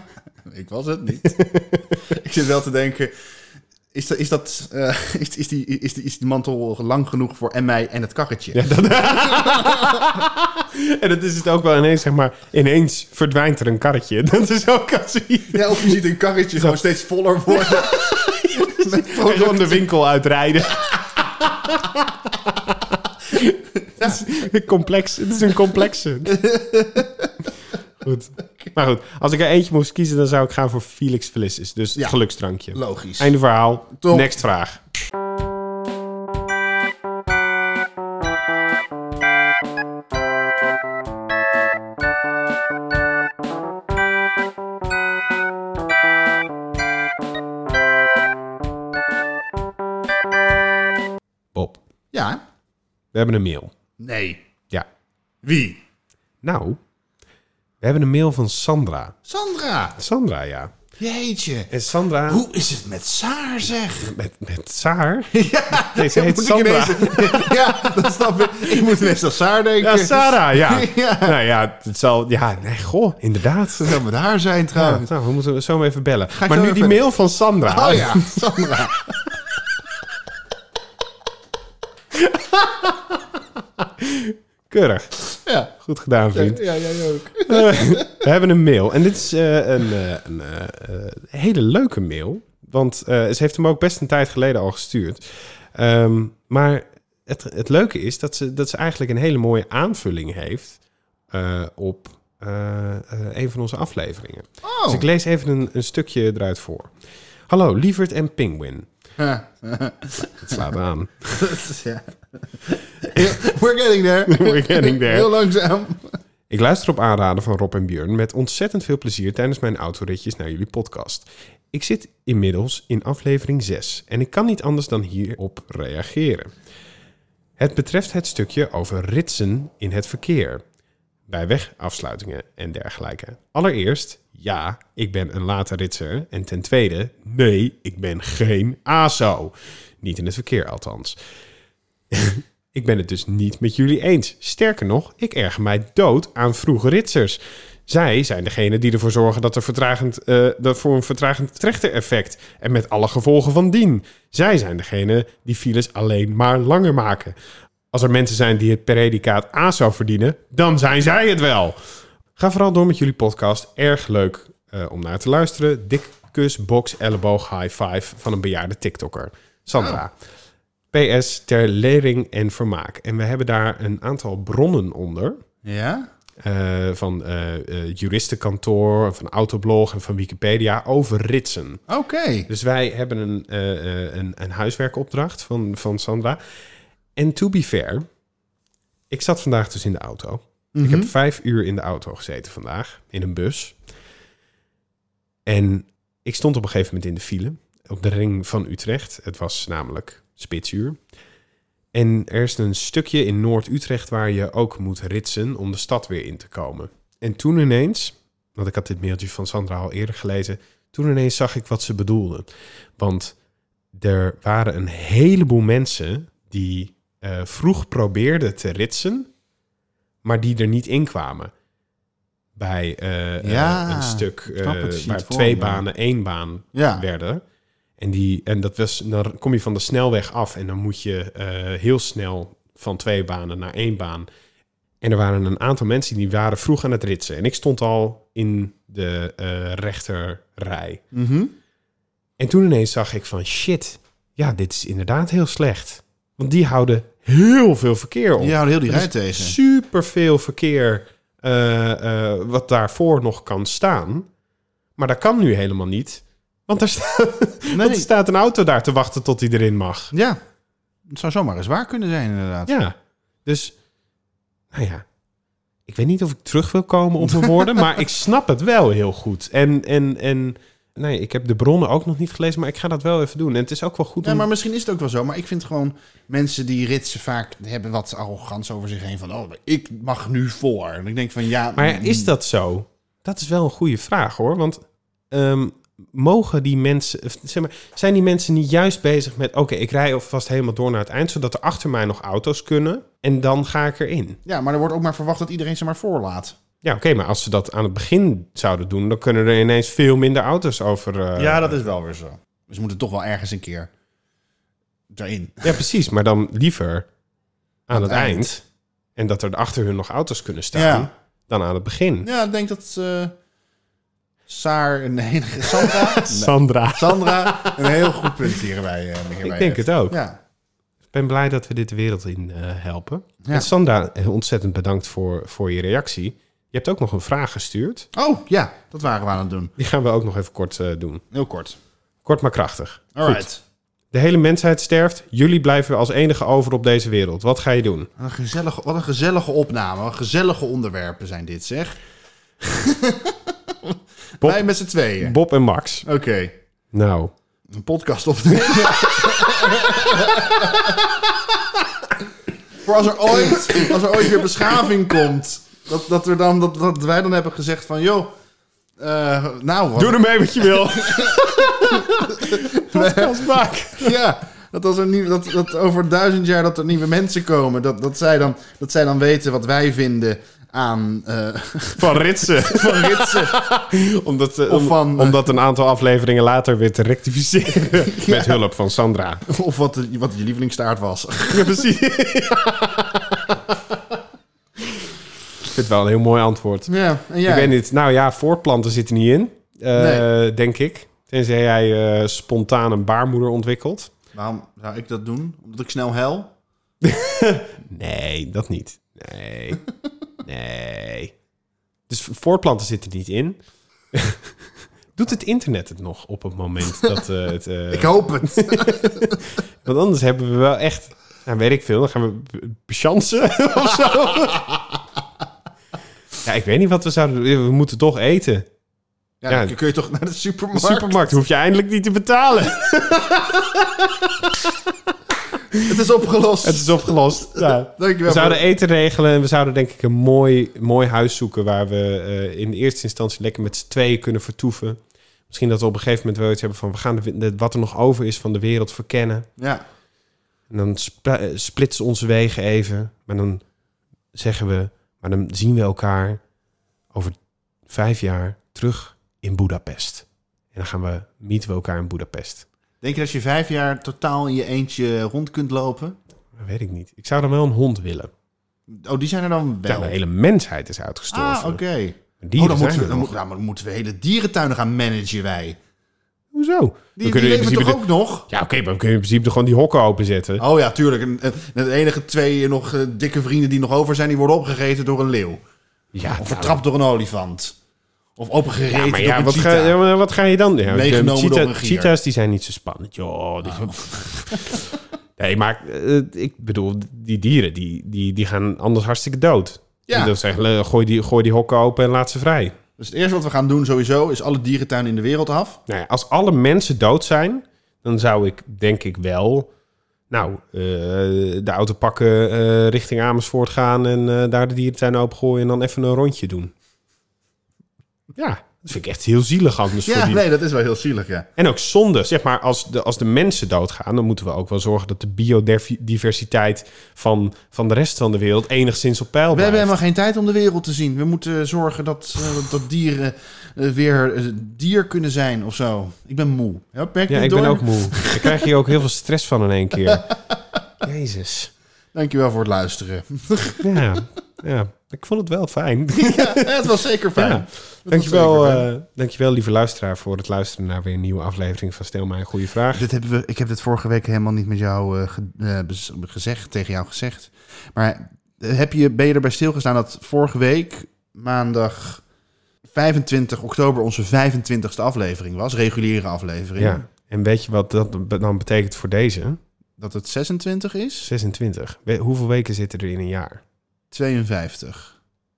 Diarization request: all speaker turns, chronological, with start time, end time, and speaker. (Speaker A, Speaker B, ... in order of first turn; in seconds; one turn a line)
Speaker A: 0.4-1.4
Speaker B: 1.2-1.9
Speaker A: 2.0-3.1
Speaker A: 3.9-10.0
Speaker B: 8.5-15.9
Speaker A: 15.5-19.8
Speaker B: 17.5-26.4
Speaker A: 26.3-27.3
Speaker B: 28.0-34.8
Speaker A: 32.7-33.4
Speaker A: 33.9-34.3
Speaker B: 51.5-51.8
Speaker A: 52.1-52.4
Speaker B: 53.1-53.7
Speaker A: 54.0-54.4
Speaker A: 55.4-55.8
Speaker B: 56.4-56.8
Speaker B: 57.8-59.1
Speaker A: 59.2-60.0
Speaker B: 60.0-60.7
Speaker A: 61.0-61.7
Speaker B: 61.7-62.4
Speaker A: 62.3-64.1
Speaker B: 64.0-69.2
Speaker A: 65.3-71.3
Speaker B: 69.8-74.0
Speaker A: 73.8-75.1
Speaker B: 74.8-78.7
Speaker A: 76.3-77.0
Speaker A: 77.6-79.2
Speaker B: 82.1-85.1
Speaker A: 85.4-85.7
Speaker B: 85.8-86.6
Speaker A: 86.3-88.2
Speaker B: 87.5-106.9
Speaker A: 104.6-105.0
Speaker B: 107.5-108.9
Speaker A: 109.2-110.6
Speaker B: 110.4-111.5
Speaker A: 111.3-116.2
Speaker B: 114.3-115.3
Speaker B: 116.5-126.5
Speaker B: 127.6-130.6
Speaker B: 131.3-141.2
Speaker B: 142.1-157.3
Speaker B: 157.9-161.8
Speaker B: 162.3-170.1
Speaker A: 169.7-170.0
Speaker B: 170.9-175.4
Speaker A: 175.6-176.1
Speaker B: 176.4-181.8
Speaker A: 181.9-182.5
Speaker B: 182.5-186.4
Speaker B: 187.2-188.1
Speaker B: 189.1-193.8
Speaker A: 190.7-191.1
Speaker B: 195.4-201.0
Speaker B: 201.9-213.3
Speaker B: 213.9-219.3
Speaker B: 220.2-221.5
Speaker B: 222.6-227.4
Speaker A: 223.4-225.8
Speaker A: 226.7-227.0
Speaker B: 228.0-234.3
Speaker B: 235.0-241.0
Speaker A: 241.1-241.5
Speaker B: 242.4-254.3
Speaker A: 248.4-249.6
Speaker B: 255.0-260.1
Speaker A: 257.7-258.1
Speaker A: 260.1-260.4
Speaker A: 261.1-262.7
Speaker B: 262.7-263.8
Speaker B: 264.7-265.0
Speaker B: 265.9-274.5
Speaker A: 274.2-282.3
Speaker B: 281.7-294.4
Speaker A: 294.4-296.6
Speaker B: 296.8-301.9
Speaker A: 301.4-303.9
Speaker A: 305.1-305.8
Speaker B: 305.6-307.1
Speaker B: 307.9-308.6
Speaker A: 307.9-308.5
Speaker B: 309.1-312.3
Speaker A: 310.7-311.1
Speaker A: 312.2-313.3
Speaker A: 314.5-320.4
Speaker B: 315.7-318.6
Speaker B: 319.4-320.2
Speaker B: 321.1-328.1
Speaker A: 323.4-323.7
Speaker A: 328.1-329.7
Speaker B: 329.8-331.2
Speaker A: 331.3-331.8
Speaker B: 332.2-333.5
Speaker A: 333.1-333.6
Speaker B: 334.1-338.1
Speaker A: 338.2-342.0
Speaker A: 342.6-345.4
Speaker B: 344.4-346.1
Speaker A: 346.0-346.5
Speaker B: 346.9-347.3
Speaker A: 347.7-351.0
Speaker B: 348.7-351.0
Speaker A: 352.8-358.3
Speaker B: 353.4-354.7
Speaker A: 359.0-373.5
Speaker B: 359.9-364.1
Speaker B: 372.0-379.4
Speaker A: 374.7-375.4
Speaker A: 377.9-378.6
Speaker A: 379.4-381.8
Speaker B: 381.5-384.0
Speaker B: 384.8-385.1
Speaker B: 385.6-386.9
Speaker A: 386.9-387.8
Speaker B: 387.4-394.1
Speaker A: 389.9-390.2
Speaker A: 394.3-396.5
Speaker B: 397.0-399.8
Speaker B: 400.4-401.3
Speaker B: 402.1-403.6
Speaker B: 404.1-404.6
Speaker B: 405.1-414.8
Speaker A: 407.9-409.4
Speaker B: 416.4-418.7
Speaker A: 419.4-421.4
Speaker B: 419.5-419.7
Speaker B: 420.7-424.9
Speaker A: 425.8-428.6
Speaker B: 426.6-439.5
Speaker A: 439.6-439.8
Speaker B: 440.7-443.6
Speaker B: 444.3-446.4
Speaker B: 447.1-452.6
Speaker A: 453.0-456.2
Speaker B: 456.5-458.3
Speaker A: 458.9-460.1
Speaker B: 459.9-461.8
Speaker A: 461.3-465.8
Speaker B: 462.4-463.3
Speaker B: 466.5-470.6
Speaker A: 467.1-468.5
Speaker A: 470.6-475.6
Speaker B: 476.1-476.8
Speaker A: 476.2-477.8
Speaker A: 478.4-480.0
Speaker B: 478.9-484.8
Speaker A: 480.8-482.1
Speaker A: 483.6-484.9
Speaker B: 485.4-492.7
Speaker A: 490.1-490.3
Speaker A: 493.0-495.8
Speaker B: 495.9-499.7
Speaker B: 500.3-506.7
Speaker B: 508.3-510.4
Speaker A: 510.0-511.5
Speaker B: 511.6-520.0
Speaker A: 519.5-528.6
Speaker B: 527.3-530.3
Speaker A: 530.1-530.5
Speaker B: 531.0-531.7
Speaker A: 532.1-533.9
Speaker B: 533.8-543.0
Speaker A: 536.1-538.9
Speaker A: 542.9-552.2
Speaker A: 552.9-557.0
Speaker B: 556.8-559.6
Speaker A: 560.0-561.3
Speaker B: 561.2-563.6
Speaker A: 564.1-565.2